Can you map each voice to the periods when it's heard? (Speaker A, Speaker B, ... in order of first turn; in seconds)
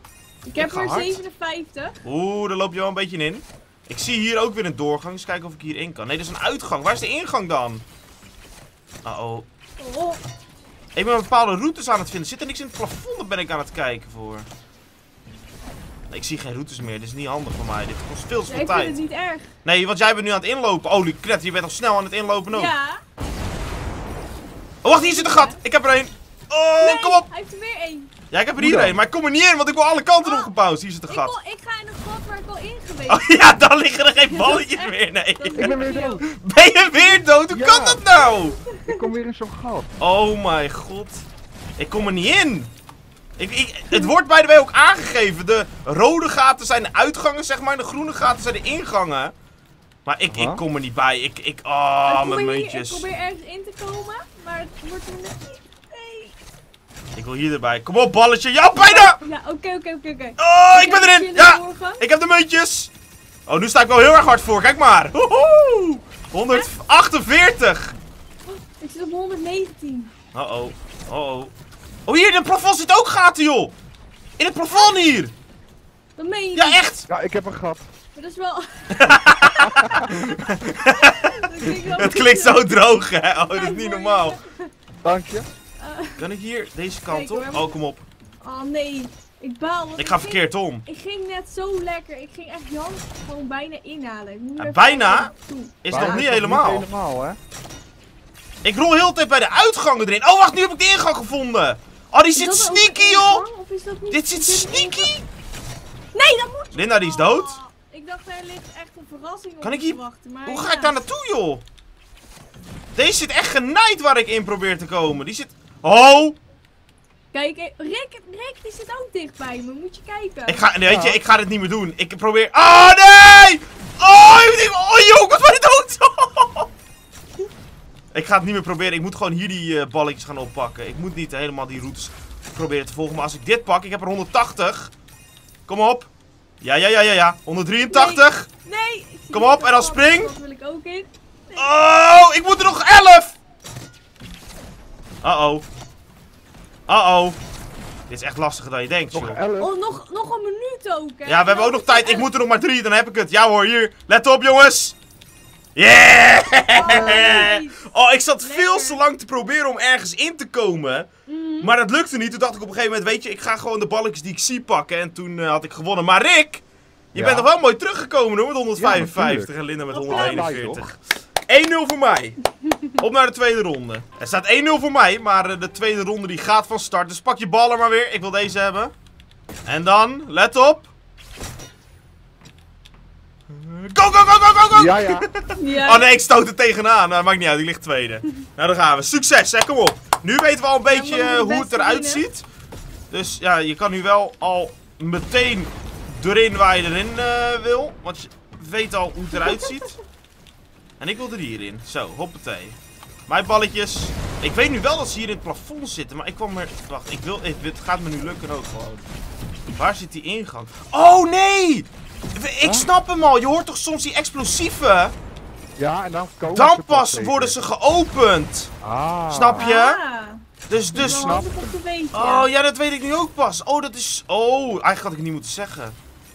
Speaker A: 0.5-2.0, 9.8-10.2, 18.5-19.5, 22.5-23.0, 24.9-25.6, 26.8-28.1, 30.2-30.5, 31.1-33.3, 34.3-36.2, 36.7-37.3, 38.0-39.0, 52.1-56.3, 58.7-62.0, 68.5-70.1, 74.7-75.0, 76.2-76.8, 78.1-84.7, 85.8-86.2, 87.1-87.8, 88.4-96.2, 102.3-105.1, 106.1-111.0, 117.3-120.7, 137.9-141.7, 149.6-152.3, 156.7-159.0, 161.3-161.7, 169.9-170.6, 185.6-186.1, 190.9-192.2, 199.4-199.8, 219.6-220.4, 220.9-222.5
Speaker B: 0.6-1.2, 2.0-7.8, 9.0-9.4, 10.9-14.5, 16.1-19.0, 19.6-22.7, 24.8-27.3, 28.3-31.3, 33.1-38.6, 40.0-41.2, 41.8-42.7, 43.4-49.3, 50.0-53.0, 57.1-59.2, 60.4-62.9, 63.5-67.9, 70.3-71.5, 72.0-73.7, 74.4-75.3, 76.5-77.1, 78.9-84.4, 86.2-88.0, 90.0-90.8, 94.6-96.9, 98.6-103.5, 104.1-105.2, 106.7-107.6, 109.6-111.6, 113.0-116.4, 120.5-126.7, 128.1-134.9, 135.7-136.1, 136.6-138.5, 139.3-140.3, 141.6-143.4, 145.2-145.6, 146.9-147.4, 148.1-149.4, 151.2-154.9, 155.8-172.4, 172.9-178.9, 179.7-180.9, 183.5-192.4, 193.1-199.9, 201.0-209.0, 209.7-215.1, 216.5-218.7, 219.3-220.0, 220.7-221.4, 222.1-225.9
Speaker C: 28.6-29.0, 35.5-36.2, 37.5-38.0, 38.8-39.9, 50.3-50.6, 77.1-77.8, 79.8-80.1, 85.0-85.5, 95.9-97.4, 120.8-121.2, 149.1-149.7, 167.1-167.5, 168.8-169.5, 170.1-170.8, 184.7-185.3, 212.6-212.9, 215.8-217.6, 218.8-219.7, 220.9-221.7